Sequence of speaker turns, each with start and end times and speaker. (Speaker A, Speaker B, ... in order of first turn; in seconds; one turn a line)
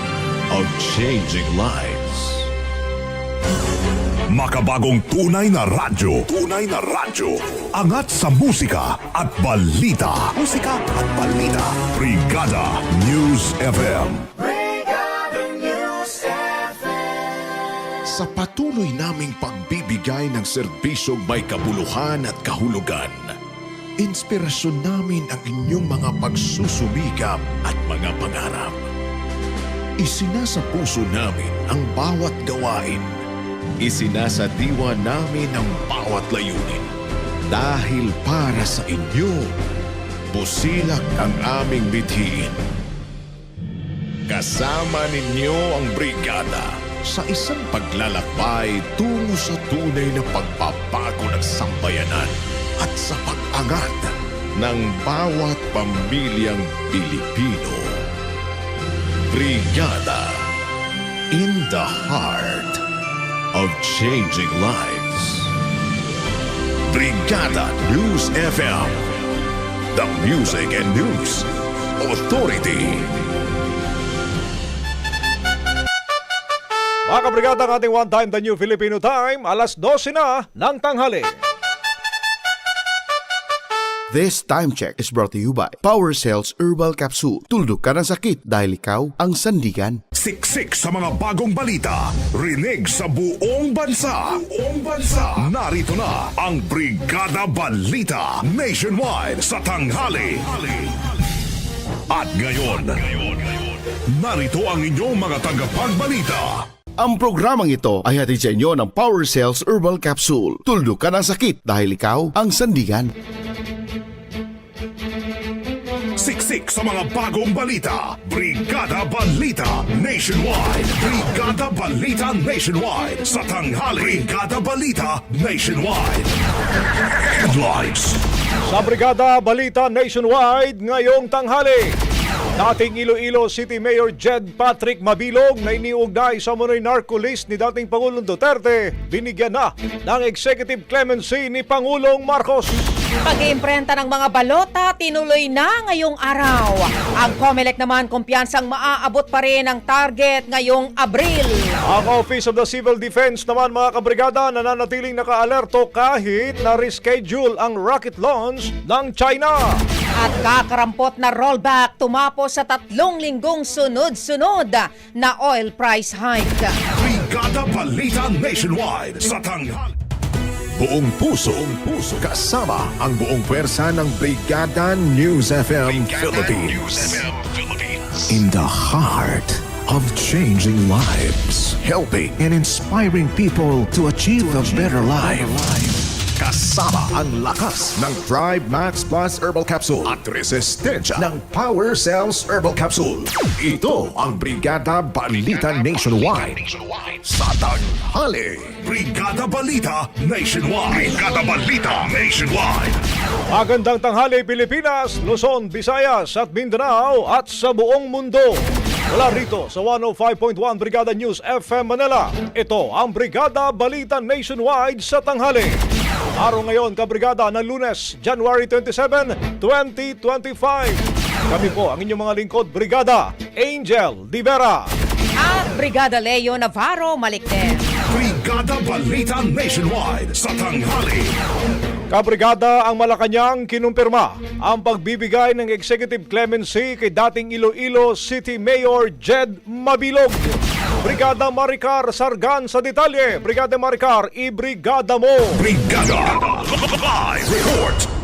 Speaker A: 0.5-2.5
Speaker B: 4.3-14.3
Speaker A: 15.4-16.2
Speaker A: 18.1-23.3
Speaker A: 24.0-28.8
Speaker A: 30.0-33.2
Speaker A: 33.8-36.9
Speaker A: 37.5-39.5
Speaker A: 40.3-42.5
Speaker A: 44.3-58.0
Speaker A: 59.3-60.4
Speaker A: 61.3-62.8
Speaker A: 63.5-65.5
Speaker A: 66.9-69.0
Speaker A: 69.9-73.1
Speaker C: 77.1-81.3
Speaker D: 84.1-90.0
Speaker B: 90.1-101.0
Speaker B: 102.1-103.6
Speaker B: 104.1-106.6
Speaker D: 107.0-113.1
Speaker B: 116.2-126.3
Speaker B: 127.1-128.2
Speaker C: 128.7-131.9
Speaker C: 132.6-142.9
Speaker E: 143.2-151.8
Speaker C: 151.8-159.8
Speaker E: 160.2-166.7
Speaker B: 166.9-169.9
Speaker A: 170.8-198.7
Speaker B: 198.8-203.0
Speaker C: 203.5-215.8
Speaker C: 216.4-224.8
Speaker E: 225.4-227.9
Speaker B: 228.1-231.3
Speaker C: 232.1-245.6
Speaker B: 245.6-248.1